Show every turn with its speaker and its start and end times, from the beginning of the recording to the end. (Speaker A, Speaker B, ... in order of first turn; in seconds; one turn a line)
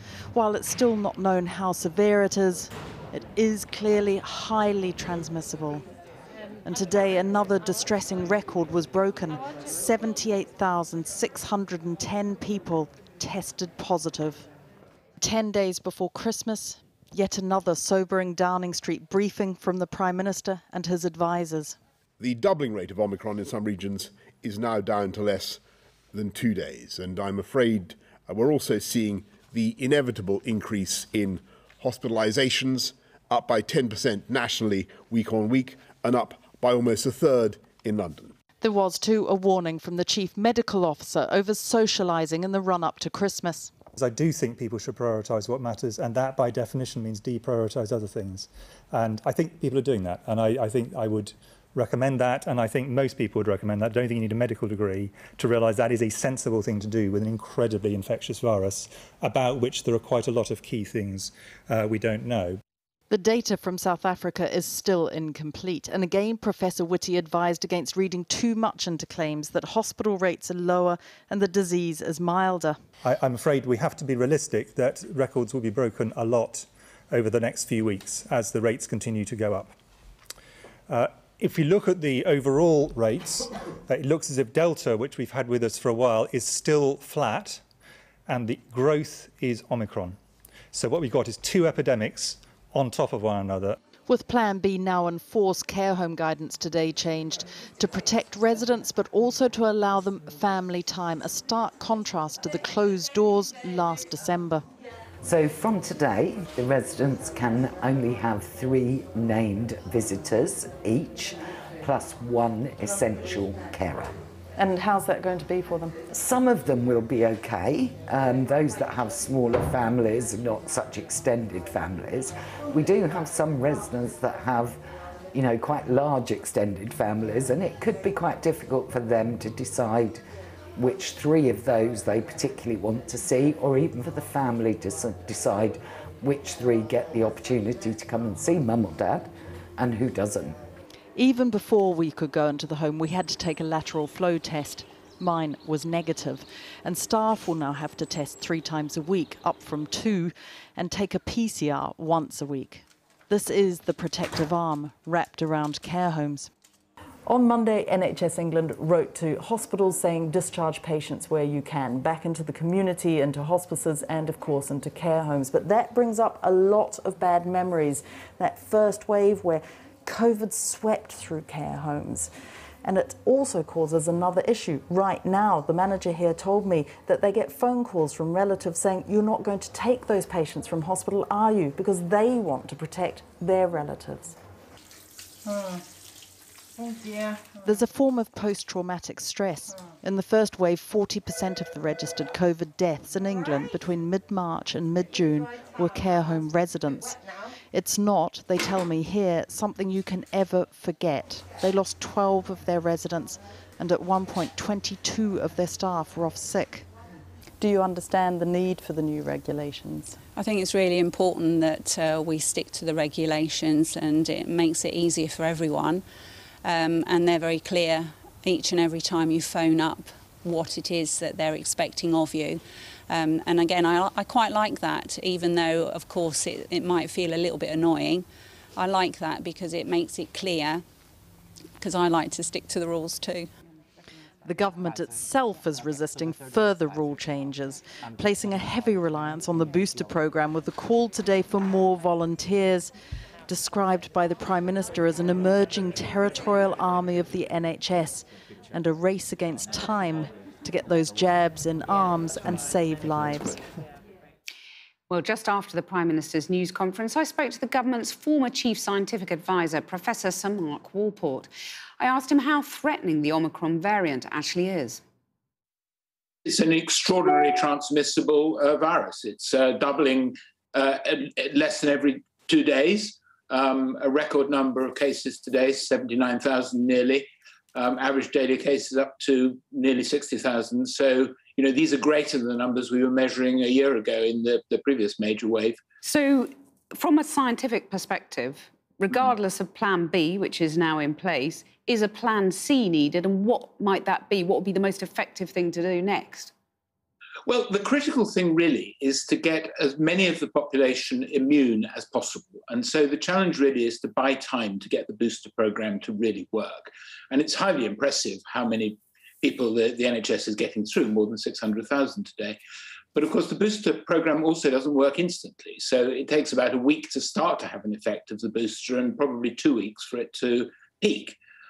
Speaker A: 0.3-5.8
Speaker A: 6.6-14.5
Speaker A: 15.2-21.8
Speaker B: 22.2-25.6
Speaker B: 26.1-38.3
Speaker A: 38.6-43.7
Speaker C: 44.0-62.6
Speaker A: 63.1-72.8
Speaker C: 73.0-79.7
Speaker C: 80.9-87.6
Speaker C: 88.3-90.2
Speaker C: 90.7-93.8
Speaker A: 94.1-104.6
Speaker D: 105.2-114.1
Speaker A: 114.6-116.0
Speaker D: 116.1-124.8
Speaker D: 125.3-130.2
Speaker D: 130.8-140.6
Speaker A: 141.2-156.5
Speaker A: 157.3-172.3
Speaker A: 172.8-184.4
Speaker A: 187.6-197.2
Speaker A: 197.7-206.9
Speaker A: 207.6-210.2
Speaker E: 210.4-216.1
Speaker E: 216.6-230.8
Speaker E: 231.8-233.5
Speaker A: 234.4-242.9
Speaker A: 243.5-253.6
Speaker F: 255.1-265.0
Speaker G: 266.4-285.8
Speaker F: 286.0-296.5
Speaker G: 297.4-312.6
Speaker G: 313.1-321.4